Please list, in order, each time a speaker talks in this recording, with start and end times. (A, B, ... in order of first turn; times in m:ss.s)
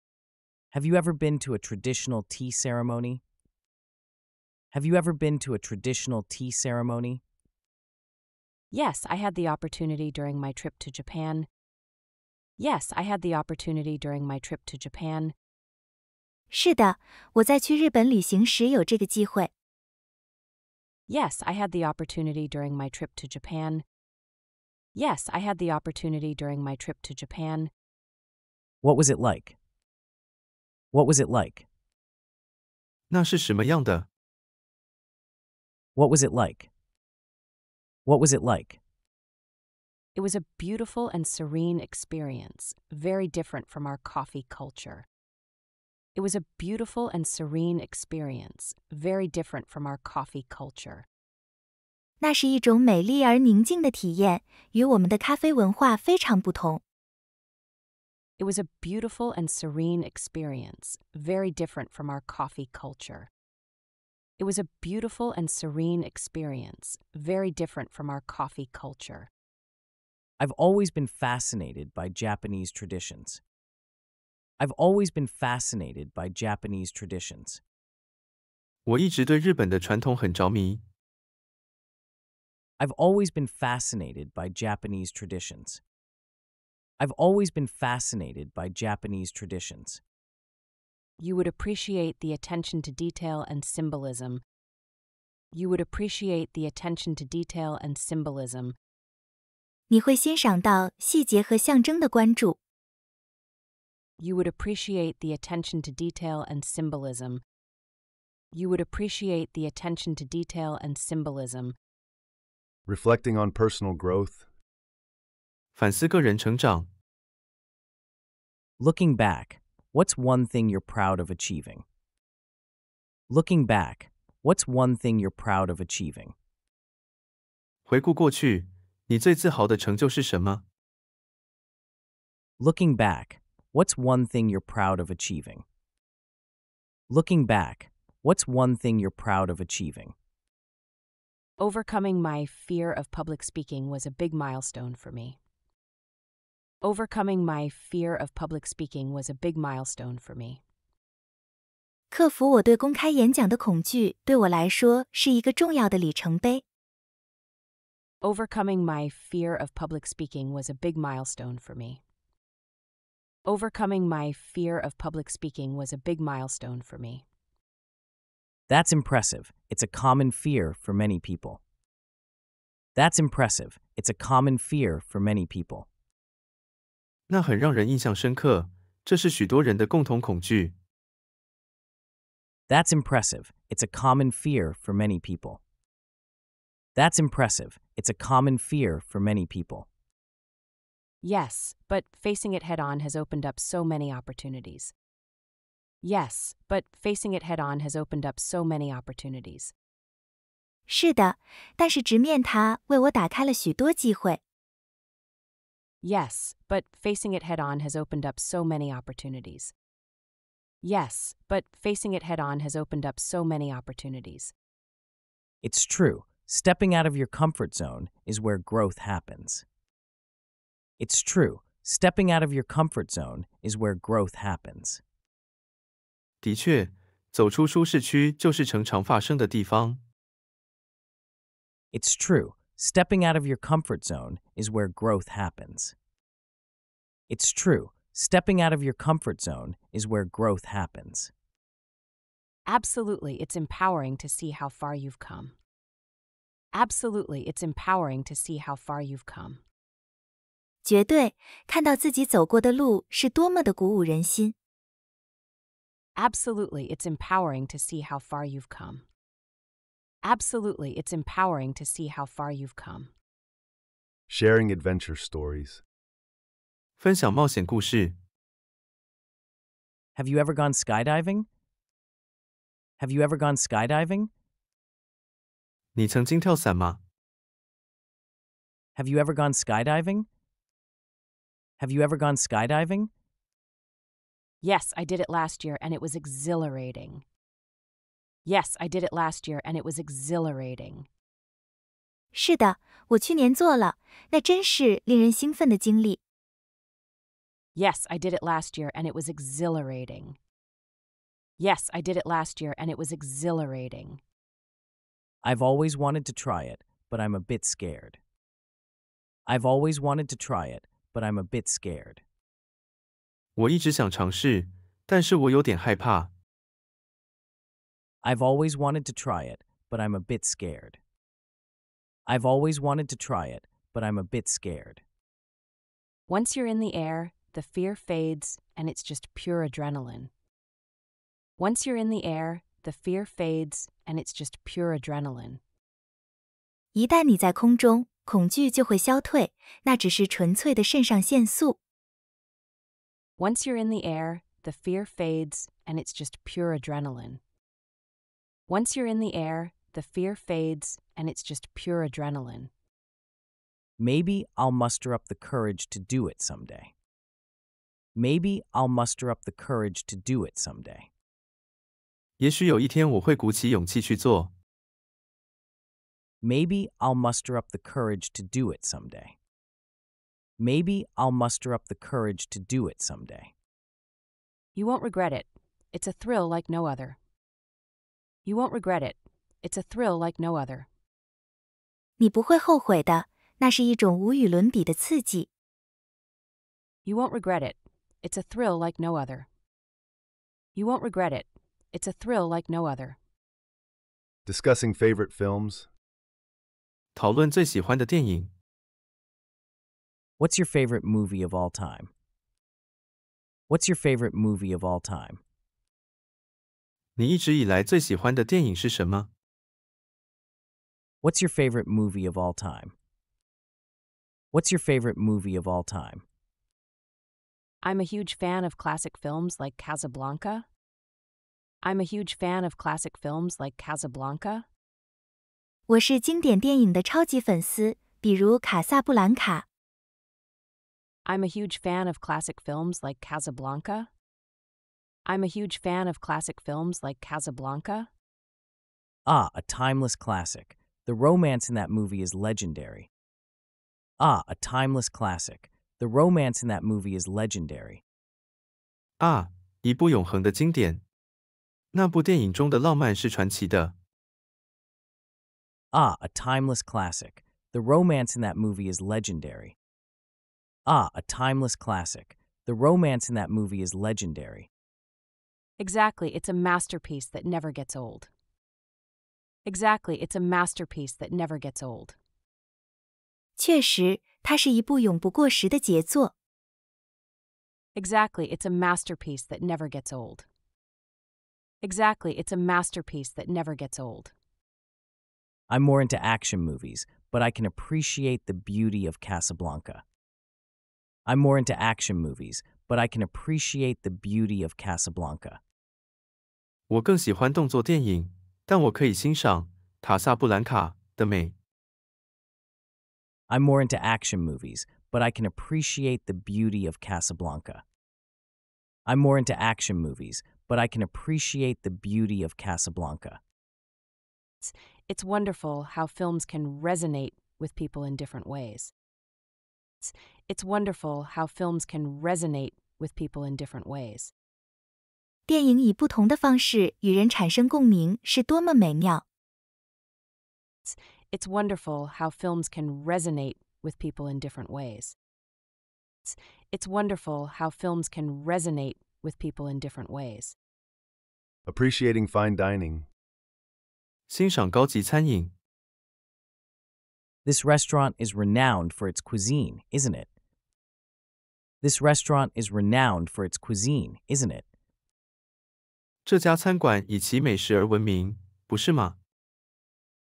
0:00.7-0:03.2 A
0:04.7-0:07.2 A
0:08.7-0:11.5 B
0:12.6-0:15.3 B
0:16.5-0:19.5 C
0:21.1-0:23.8 B
0:25.0-0:27.7 B
0:28.8-0:29.6 A
0:30.9-0:31.7 A
0:33.1-0:34.1 D
0:36.0-0:36.7 A
0:38.1-0:38.8 A
0:40.2-0:45.1 B
0:46.2-0:51.1 B
0:52.2-0:56.8 C
0:58.4-1:03.3 B
1:04.4-1:09.3 B
1:10.4-1:13.4 A
1:14.6-1:17.6 A
1:18.9-1:20.8 D
1:22.8-1:25.8 A
1:27.0-1:30.0 A
1:31.2-1:34.4 B
1:35.5-1:38.8 B
1:39.9-1:42.6 C
1:44.2-1:47.4 B
1:48.5-1:51.8 B
1:52.9-1:54.5 E
1:55.8-1:56.9 D
1:58.8-2:01.8 A
2:03.3-2:06.3 A
2:07.9-2:10.6 D
2:12.6-2:15.6 A
2:17.1-2:20.2 A
2:21.6-2:25.4 B
2:26.8-2:30.6 B
2:32.1-2:36.6 C
2:38.2-2:42.0 B
2:43.5-2:47.2 B
2:48.7-2:51.6 A
2:53.0-2:55.9 A
2:57.3-3:00.8 D
3:02.7-3:05.6 A
3:07.0-3:09.9 A
3:11.2-3:14.9 B
3:16.0-3:19.7 B
3:20.9-3:24.4 C
3:26.0-3:29.7 B
3:30.8-3:34.5 B
3:35.6-3:39.6 A
3:41.0-3:45.0 A
3:46.4-3:50.0 D
3:51.9-3:56.0 A
3:57.3-4:01.3 A
4:02.7-4:05.5 B
4:06.7-4:09.6 B
4:10.8-4:14.6 C
4:16.2-4:19.0 B
4:20.2-4:23.1 B
4:24.3-4:25.8 E
4:27.0-4:28.2 D
4:30.2-4:31.5 A
4:33.0-4:34.3 A
4:36.0-4:37.0 D
4:39.0-4:40.3 A
4:41.8-4:43.1 A
4:44.6-4:47.2 B
4:48.5-4:51.1 B
4:52.3-4:56.2 C
4:57.8-5:00.4 B
5:01.6-5:04.2 B
5:05.4-5:08.2 A
5:09.5-5:12.2 A
5:13.6-5:16.3 D
5:18.2-5:21.0 A
5:22.3-5:25.0 A
5:26.3-5:30.3 B
5:31.6-5:35.6 B
5:36.9-5:41.8 C
5:43.4-5:47.4 B
5:48.7-5:52.7 B
5:54.0-5:56.9 A
5:58.2-6:01.1 A
6:02.4-6:04.5 D
6:06.4-6:09.4 A
6:10.6-6:13.5 A
6:14.8-6:17.2 B
6:18.4-6:20.9 B
6:22.2-6:25.5 C
6:27.0-6:29.5 B
6:30.8-6:33.2 B
6:34.5-6:35.9 E
6:37.2-6:38.5 D
6:40.4-6:42.1 A
6:43.7-6:45.4 A
6:47.2-6:49.3 D
6:51.2-6:52.9 A
6:54.5-6:56.2 A
6:57.8-7:00.7 B
7:01.8-7:04.7 B
7:05.9-7:09.6 C
7:11.3-7:14.1 B
7:15.3-7:18.1 B
7:19.3-7:23.1 A
7:24.2-7:28.0 A
7:29.2-7:31.0 D
7:31.9-7:33.9 D
7:35.9-7:39.8 A
7:40.9-7:44.7 A
7:45.8-7:48.3 B
7:49.7-7:52.2 B
7:53.6-7:56.3 C
7:58.0-8:00.5 B
8:01.8-8:04.3 B
8:05.7-8:10.0 A
8:11.3-8:15.6 A
8:16.9-8:21.5 D
8:23.5-8:27.8 A
8:29.1-8:33.4 A
8:34.6-8:38.9 B
8:40.0-8:44.3 B
8:45.5-8:49.2 C
8:50.8-8:55.2 B
8:56.2-9:00.6 B
9:01.7-9:03.1 E
9:04.3-9:05.5 D
9:07.5-9:10.3 A
9:11.8-9:14.6 A
9:16.2-9:19.2 D